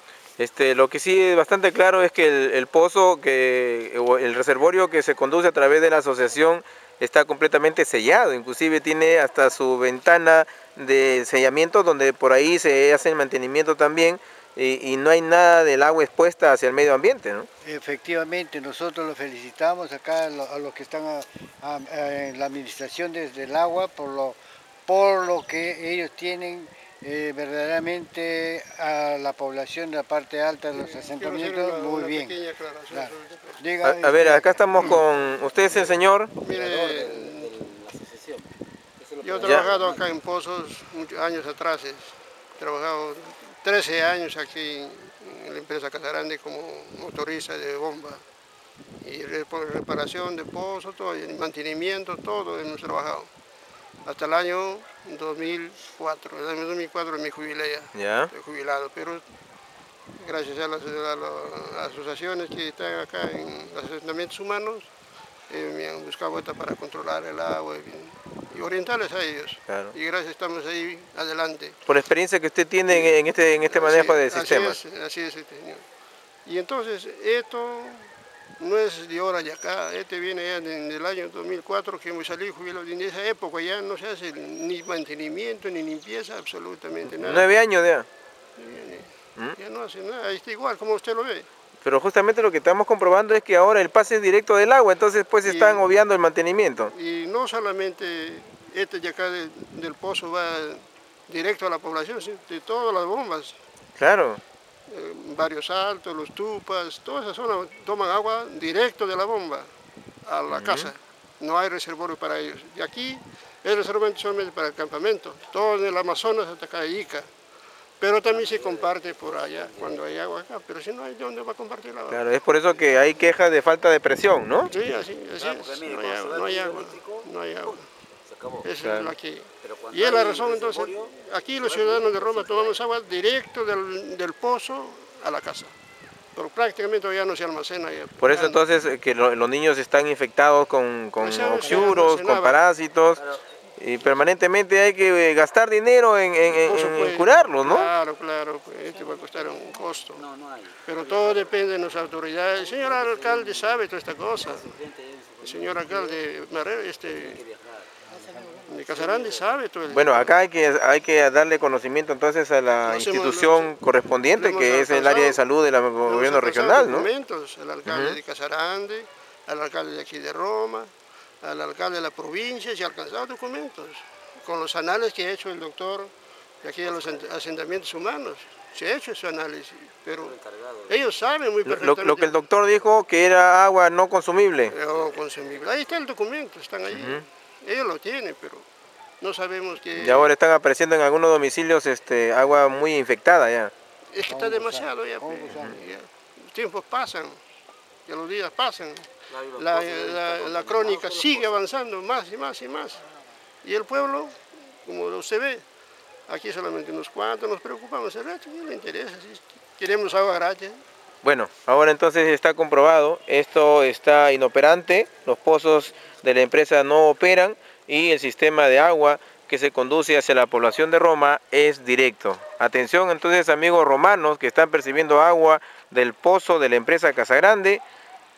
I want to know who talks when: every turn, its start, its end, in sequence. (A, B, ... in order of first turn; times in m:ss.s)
0:00.4-0:17.5 A
0:17.6-0:32.3 B
0:30.7-0:33.6 C
0:32.9-0:35.0 B
0:33.8-0:36.4 A
0:36.4-0:37.6 C
0:36.4-0:38.5 D
0:39.0-0:40.1 D
0:39.2-0:48.2 C
0:39.4-0:39.7 A
0:49.0-0:53.3 C
0:54.0-0:59.2 C
0:57.9-0:58.3 A
1:00.2-1:04.9 C
1:05.5-1:11.8 C
1:09.7-1:09.9 A
1:11.8-1:14.8 A
1:12.9-1:15.8 C
1:16.4-1:27.5 C
1:27.1-1:28.1 A
1:28.6-1:31.5 C
1:31.8-1:36.9 A
1:35.4-1:35.8 C
1:36.9-1:43.6 C
1:44.0-1:44.4 A
1:44.9-1:49.7 C
1:50.2-1:57.3 C
1:50.5-1:50.9 A
1:58.0-2:02.2 C
1:58.2-2:00.1 D
2:02.1-2:04.7 A
2:04.7-2:07.9 C
2:05.4-2:07.8 D
2:08.3-2:08.7 D
2:08.6-2:15.7 C
2:08.8-2:09.1 A
2:09.6-2:12.8 D
2:16.3-2:18.6 C
2:18.2-2:23.2 A
2:21.2-2:22.6 C
2:23.8-2:27.9 A
2:26.5-2:30.2 C
2:30.2-2:31.6 D
2:30.8-2:34.8 C
2:32.5-2:33.8 D
2:34.3-2:36.2 D
2:35.4-2:37.4 C
2:37.1-2:37.9 D
2:38.0-2:38.7 B
2:38.7-2:40.4 C
2:38.9-2:39.5 D
2:39.9-2:47.1 A
2:42.8-2:43.7 C
2:44.3-2:45.4 C
2:46.0-2:50.9 C
2:47.8-2:48.2 A
2:51.4-3:02.3 C
3:00.2-3:01.0 D
3:01.6-3:04.7 A
3:04.7-3:08.6 C
3:04.9-3:05.8 D
3:06.9-3:07.2 A
3:09.2-3:10.3 C
3:10.0-3:13.7 A
3:14.1-3:17.4 C
3:14.3-3:15.8 B
3:18.0-3:23.0 C
3:19.3-3:21.6 D
3:23.6-3:25.6 C
3:26.3-3:30.8 C
3:31.2-3:47.8 A